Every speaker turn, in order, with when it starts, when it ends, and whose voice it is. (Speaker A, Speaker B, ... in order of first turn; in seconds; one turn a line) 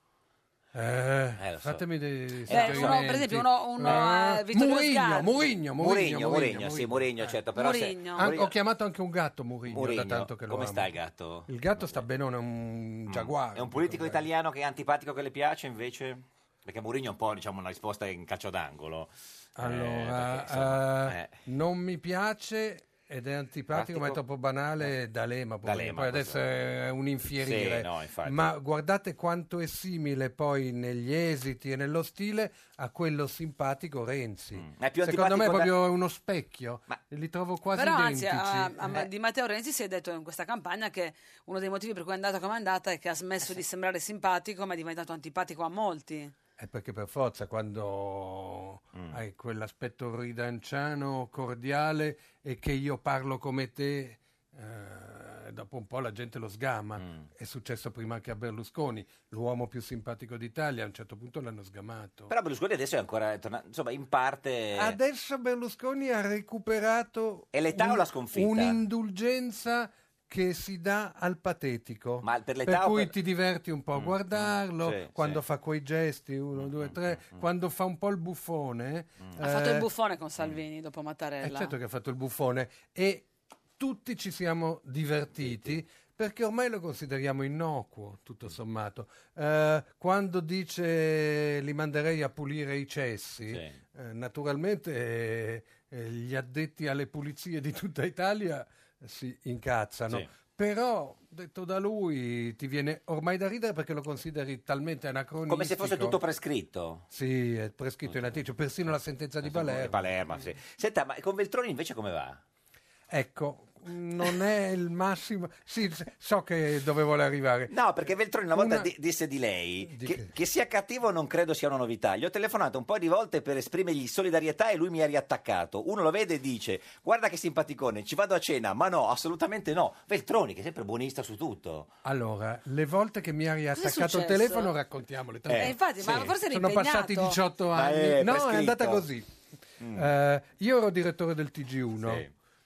Speaker A: 0.7-7.3
Speaker B: 1.4-1.8
Speaker B: 2.4-3.0
Speaker C: 2.5-5.5
Speaker B: 5.8-8.5
Speaker C: 7.5-8.3
Speaker A: 8.1-10.9
Speaker B: 9.7-12.0
Speaker A: 11.5-14.2
Speaker B: 13.1-21.4
Speaker A: 19.6-39.0
Speaker B: 23.7-24.2
Speaker B: 25.6-26.4
Speaker B: 27.4-28.5
Speaker B: 34.5-35.7
Speaker C: 37.7-46.3
Speaker A: 46.6-62.3
Speaker B: 62.3-65.0
Speaker A: 64.7-79.9
Speaker B: 67.5-68.8
Speaker B: 72.2-73.1
Speaker B: 73.9-75.4
Speaker B: 76.5-77.4
Speaker C: 79.4-81.7
Speaker A: 81.4-83.2
Speaker A: 83.8-106.2
Speaker B: 85.4-85.8
Speaker B: 93.5-93.8
Speaker B: 105.5-107.0
Speaker A: 107.1-110.0
Speaker B: 109.4-112.4
Speaker A: 113.1-117.7
Speaker B: 117.7-131.9
Speaker A: 118.5-118.9
Speaker A: 119.9-120.3
Speaker A: 132.0-139.2
Speaker C: 133.7-134.7
Speaker B: 135.5-136.3
Speaker C: 135.6-137.4
Speaker B: 137.7-139.1
Speaker B: 139.8-140.1
Speaker A: 139.9-142.2
Speaker B: 142.0-142.3